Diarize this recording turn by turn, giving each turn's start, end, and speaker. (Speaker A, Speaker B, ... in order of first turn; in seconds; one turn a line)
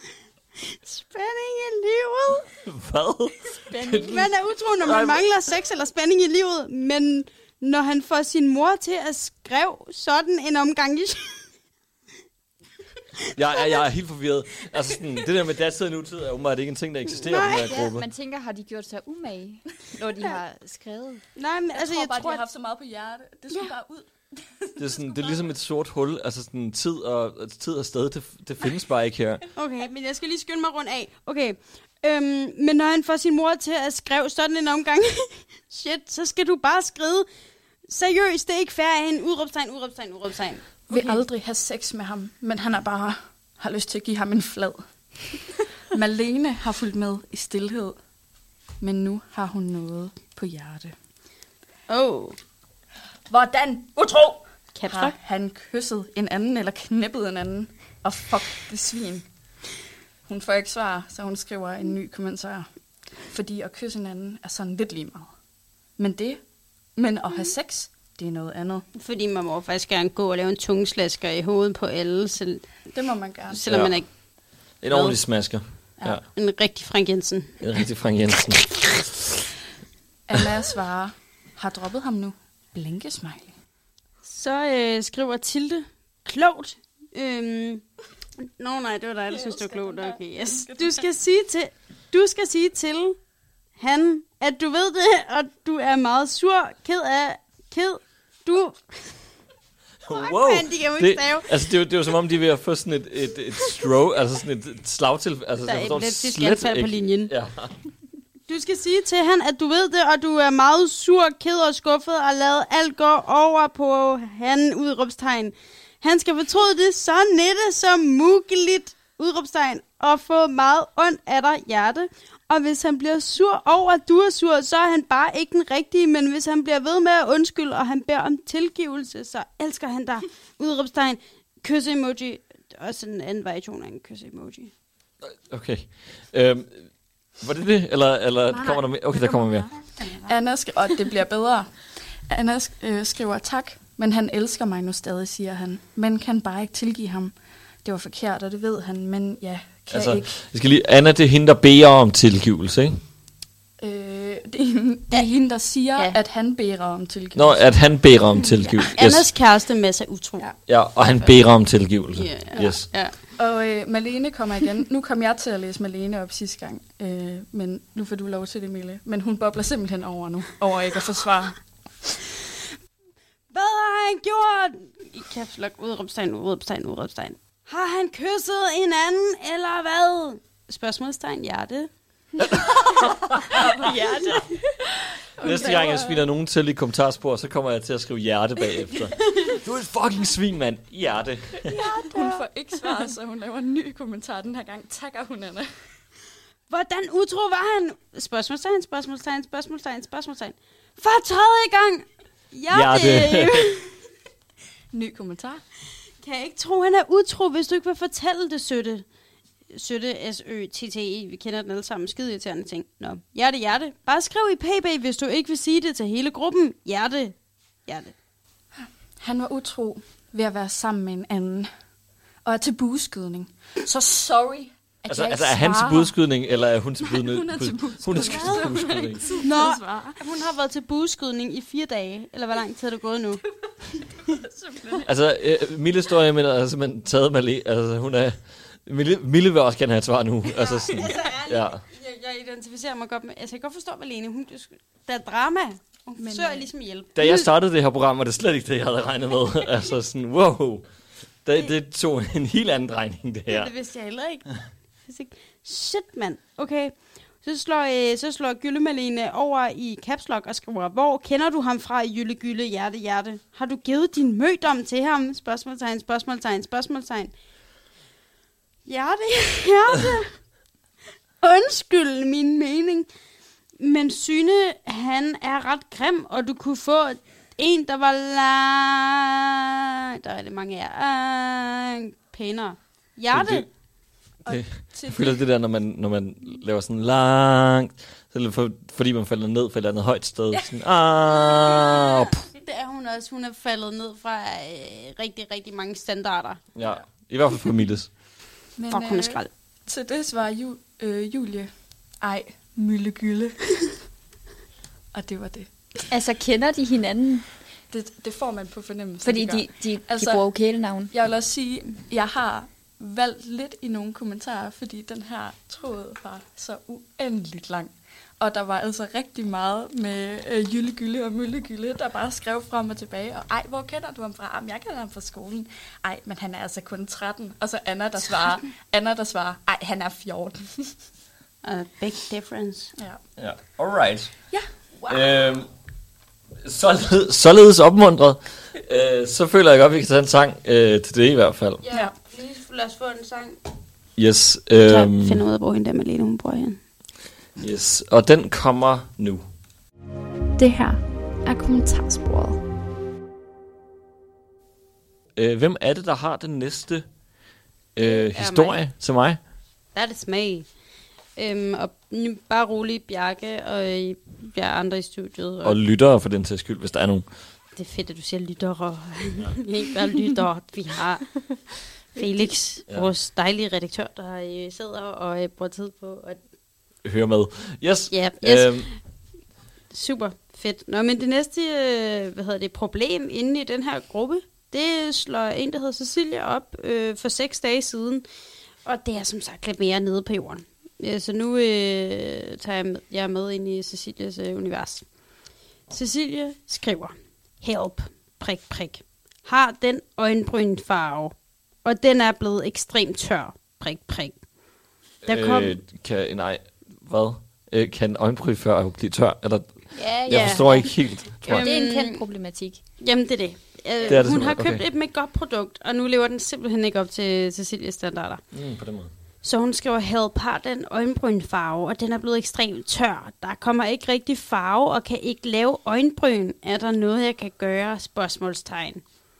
Speaker A: 0.6-2.5
Speaker B: 2.6-4.3
Speaker C: 3.7-4.0
Speaker A: 3.9-11.5
Speaker B: 4.8-5.2
Speaker B: 13.3-18.0
Speaker A: 17.2-17.7
Speaker C: 17.7-21.2
Speaker A: 21.3-22.4
Speaker D: 21.7-25.3
Speaker B: 24.8-29.4
Speaker A: 29.5-37.2
Speaker A: 37.8-41.2
Speaker D: 40.9-48.0
Speaker D: 48.8-50.9
Speaker A: 51.9-52.4
Speaker D: 53.3-59.2
Speaker A: 54.7-55.1
Speaker D: 60.3-62.7
Speaker D: 63.2-65.3
Speaker D: 66.0-68.8
Speaker A: 68.9-72.8
Speaker D: 72.9-73.7
Speaker A: 73.5-74.2
Speaker B: 73.6-74.0
Speaker B: 74.8-76.2
Speaker A: 74.9-75.2
Speaker A: 76.2-77.7
Speaker B: 77.6-79.1
Speaker A: 78.6-78.9
Speaker D: 80.3-83.5
Speaker A: 84.2-87.9
Speaker A: 88.4-93.2
Speaker D: 89.3-91.0
Speaker A: 93.8-99.2
Speaker B: 100.0-107.7
Speaker A: 100.1-101.6
Speaker A: 105.6-107.3
Speaker A: 108.5-134.7
Speaker B: 135.2-139.8
Speaker D: 140.2-150.3
Speaker B: 149.9-153.0
Speaker D: 153.8-157.7
Speaker B: 157.3-159.3
Speaker A: 158.8-161.4
Speaker B: 160.7-162.9
Speaker A: 162.1-163.2
Speaker D: 163.3-171.7
Speaker A: 173.5-181.9
Speaker B: 182.4-183.6
Speaker D: 183.8-184.4
Speaker C: 183.8-184.4
Speaker D: 185.4-186.1
Speaker B: 185.4-191.7
Speaker A: 191.7-192.4
Speaker D: 191.9-195.8
Speaker A: 196.7-203.9
Speaker B: 202.7-203.7
Speaker D: 204.9-205.6
Speaker A: 206.2-209.1
Speaker A: 209.7-218.1
Speaker D: 218.8-221.7
Speaker D: 222.4-226.1
Speaker B: 225.1-229.2
Speaker D: 227.0-230.2
Speaker A: 228.1-228.6
Speaker A: 229.4-233.4
Speaker D: 234.2-235.1
Speaker B: 235.0-241.8
Speaker A: 240.6-247.5
Speaker D: 246.2-246.7
Speaker B: 247.1-250.9
Speaker B: 251.4-253.7
Speaker A: 253.5-267.4
Speaker A: 268.8-270.5
Speaker A: 271.4-273.1
Speaker A: 273.8-279.2
Speaker A: 280.2-283.7
Speaker B: 283.3-283.7
Speaker D: 284.4-285.3
Speaker B: 284.4-292.4
Speaker A: 292.6-296.6
Speaker B: 296.7-298.1
Speaker D: 298.8-303.9
Speaker A: 298.9-299.5
Speaker D: 305.1-306.0
Speaker C: 306.1-307.5
Speaker D: 307.9-310.6
Speaker C: 309.2-311.1
Speaker D: 311.1-330.9
Speaker A: 331.6-332.9
Speaker B: 333.4-334.5
Speaker B: 335.1-335.7
Speaker B: 336.6-341.8
Speaker A: 341.8-343.6
Speaker B: 344.1-345.4
Speaker A: 344.8-346.8
Speaker B: 347.6-349.4
Speaker E: 350.6-352.6
Speaker B: 355.4-357.1
Speaker B: 357.9-359.4
Speaker A: 358.0-358.8
Speaker A: 359.9-360.8
Speaker A: 361.3-365.8
Speaker B: 365.6-367.3
Speaker A: 367.8-376.4
Speaker B: 377.0-378.9
Speaker A: 378.1-379.3
Speaker A: 379.9-388.2
Speaker A: 388.8-404.5
Speaker A: 405.2-405.8
Speaker B: 405.2-411.7
Speaker C: 409.9-412.8
Speaker A: 410.3-412.2
Speaker A: 413.0-418.4
Speaker B: 414.0-414.8
Speaker B: 418.5-419.1
Speaker A: 419.4-429.2